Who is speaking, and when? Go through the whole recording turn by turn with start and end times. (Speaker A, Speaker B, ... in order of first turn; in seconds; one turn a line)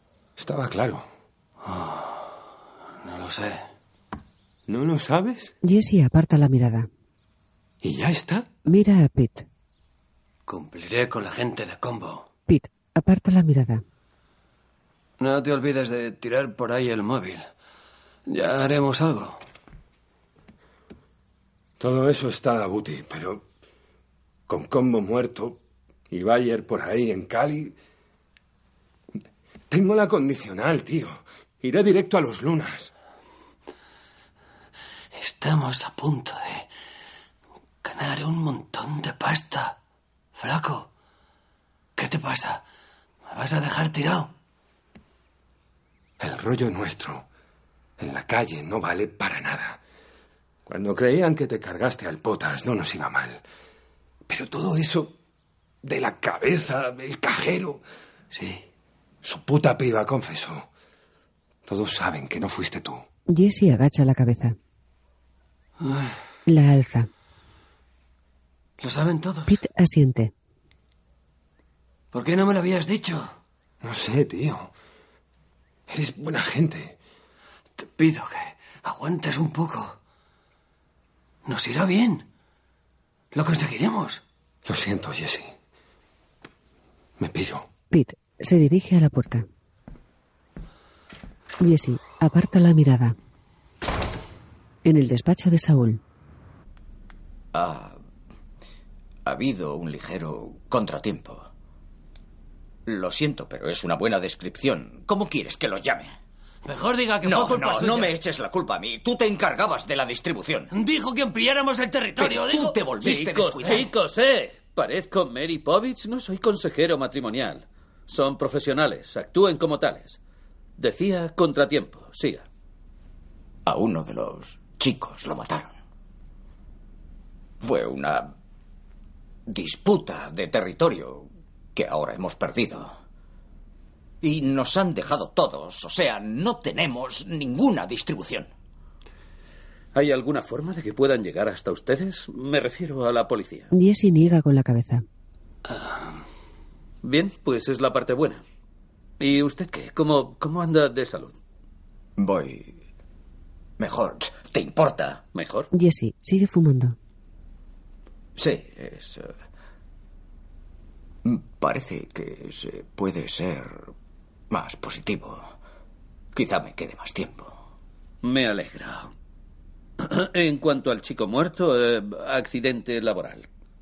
Speaker A: 0.4-1.1
Speaker B: 1.6-2.4
Speaker B: 3.0-3.7
Speaker A: 4.7-5.5
Speaker C: 5.6-6.9
Speaker A: 7.8-8.5
Speaker C: 8.7-9.5
Speaker B: 10.5-12.3
Speaker C: 12.5-13.8
Speaker B: 15.2-17.5
Speaker B: 18.3-19.4
Speaker A: 21.8-23.4
Speaker A: 24.5-25.6
Speaker A: 26.1-27.8
Speaker A: 29.7-32.9
Speaker B: 35.1-36.7
Speaker B: 37.8-39.8
Speaker B: 40.4-40.9
Speaker B: 42.0-42.6
Speaker B: 43.3-44.3
Speaker A: 46.2-47.3
Speaker A: 48.0-49.8
Speaker A: 50.7-53.4
Speaker A: 54.3-55.2
Speaker A: 55.8-57.8
Speaker B: 58.3-58.6
Speaker A: 59.2-60.7
Speaker A: 61.7-63.0
Speaker C: 63.3-64.6
Speaker B: 65.8-66.2
Speaker C: 66.5-67.1
Speaker B: 68.8-69.6
Speaker C: 69.5-70.3
Speaker B: 72.1-73.4
Speaker A: 73.8-74.7
Speaker A: 75.9-77.0
Speaker B: 77.8-80.0
Speaker B: 81.5-82.3
Speaker B: 83.3-84.2
Speaker A: 84.7-85.5
Speaker A: 87.2-87.7
Speaker C: 87.9-89.5
Speaker C: 91.6-93.2
Speaker C: 94.8-96.0
Speaker D: 97.5-98.0
Speaker D: 99.3-101.5
Speaker D: 102.9-106.2
Speaker B: 106.7-108.2
Speaker D: 107.2-110.7
Speaker B: 110.7-112.8
Speaker D: 112.2-113.9
Speaker E: 113.0-120.2
Speaker E: 120.8-122.5
Speaker D: 123.7-125.8
Speaker D: 127.6-128.3
Speaker D: 129.5-133.0
Speaker D: 134.2-138.5
Speaker E: 139.9-143.7
Speaker C: 143.7-145.0
Speaker B: 145.7-146.2
Speaker E: 147.0-148.4
Speaker E: 149.2-151.4
Speaker D: 152.2-152.8
Speaker D: 153.8-155.2
Speaker E: 155.3-155.7
Speaker C: 155.7-157.0
Speaker D: 158.4-159.4
Speaker D: 161.2-163.9
Speaker D: 164.5-165.5
Speaker D: 166.3-167.6
Speaker E: 168.2-169.1
Speaker E: 170.0-173.5